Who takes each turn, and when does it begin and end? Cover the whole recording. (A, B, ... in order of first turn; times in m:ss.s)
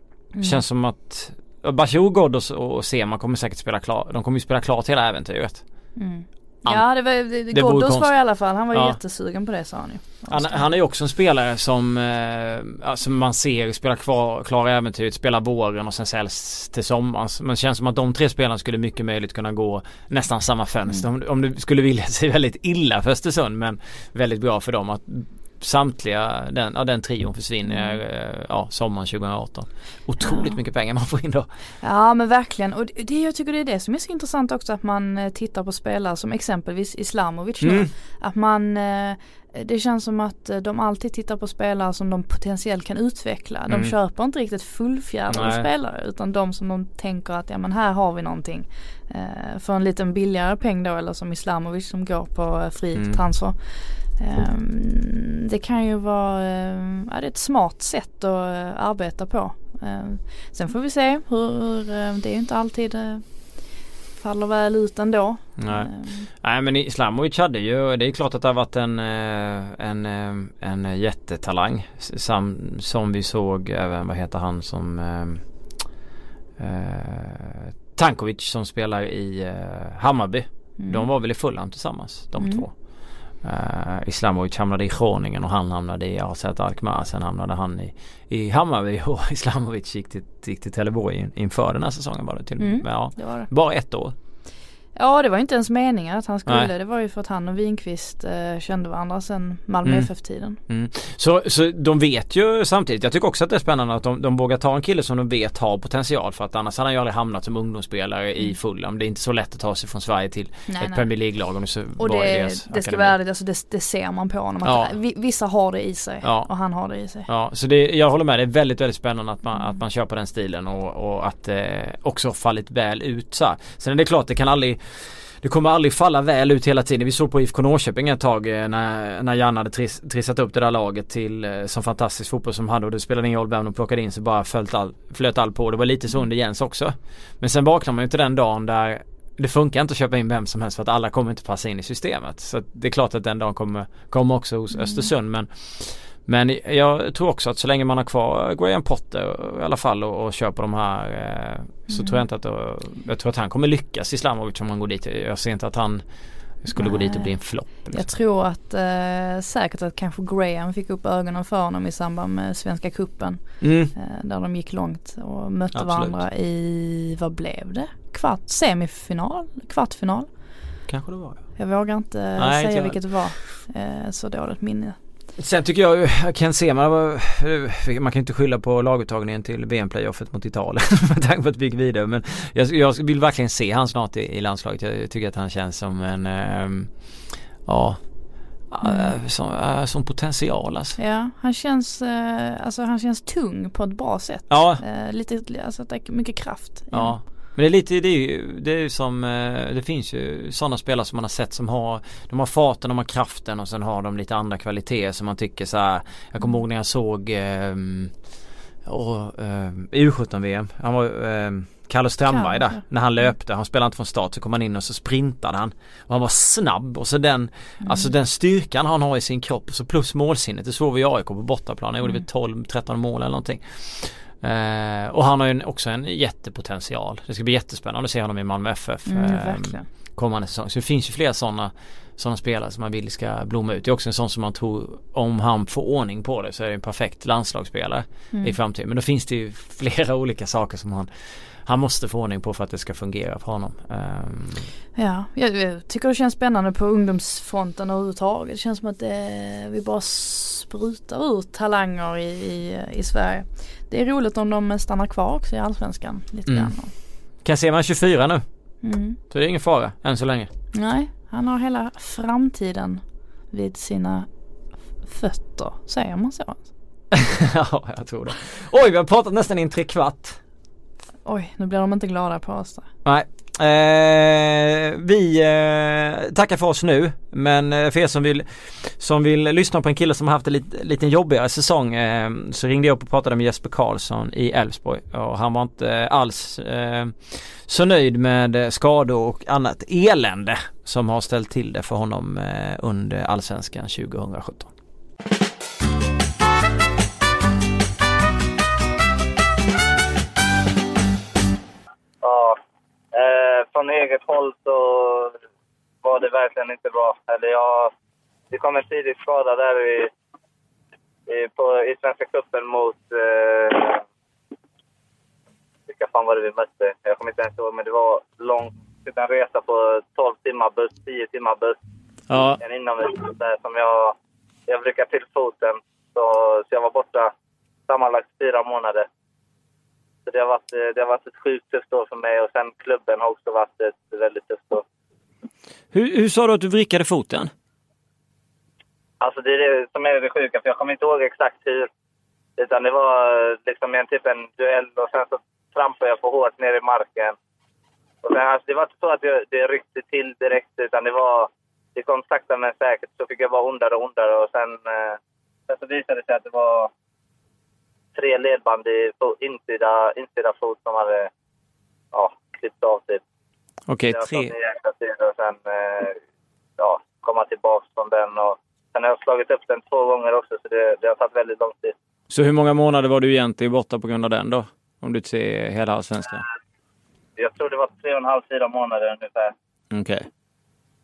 0:00.3-0:00.6 A
0:00.4-0:05.9 B
0:06.0-0:10.7 A
0:06.6-0:09.0 B
0:10.3-0:31.5 B
0:27.6-0:28.0 A
0:30.2-0:30.5 A
0:31.8-1:06.3 A
0:37.6-0:37.9 B
0:43.7-0:43.9 B
0:45.3-0:45.7 B
0:52.9-0:53.2 B
1:05.6-1:15.4 B
1:16.6-1:34.1 B
1:20.8-1:21.1 A
1:22.4-1:22.7 A
1:32.6-1:33.5 A
1:35.0-1:40.6 A
1:39.8-1:40.1 B
1:40.7-1:53.2 B
1:50.7-1:51.0 A
1:52.0-1:57.3 A
1:54.6-1:54.9 B
1:56.2-1:56.5 B
1:57.2-2:38.1 B
2:24.7-2:25.1 A
2:31.9-2:32.2 A
2:36.8-2:50.8 A
2:43.6-2:43.9 B
2:45.7-2:46.2 B
2:50.9-2:51.6 B
2:51.6-2:55.0 A
2:52.4-2:53.3 B
2:55.4-3:11.0 B
3:08.8-3:09.1 A
3:11.0-3:17.2 A
3:14.5-3:14.8 B
3:16.9-3:28.2 B
3:28.8-4:04.7 B
3:32.3-3:32.8 A
3:37.8-3:38.1 A
3:49.0-3:49.9 A
4:04.9-4:16.9 A
4:16.5-4:16.7 B
4:17.4-4:18.4 B
4:18.8-4:19.2 A
4:19.3-4:20.5 B
4:20.7-4:24.3 A
4:25.0-4:26.6 A
4:27.1-4:30.4 B
4:31.2-4:32.9 A
4:33.0-4:54.7 B
5:02.2-5:02.6 C
5:03.1-5:05.4 C
5:06.0-5:07.9 C
5:08.5-5:10.1 C
5:11.3-5:14.0 C
5:15.9-5:21.8 C
5:22.3-5:22.6 B
5:22.6-5:24.2 C
5:24.7-5:27.3 C
5:27.9-5:29.1 C
5:30.2-5:34.8 C
5:35.9-5:37.5 B
5:39.2-5:41.9 C
5:42.6-5:47.4 C
5:48.2-5:56.9 C
5:58.1-6:01.3 C
6:02.1-6:03.2 C
6:03.9-6:04.5 B
6:04.1-6:06.2 C
6:06.8-6:12.0 C
6:12.3-6:16.4 B
6:17.4-6:19.5 C
6:19.9-6:20.3 B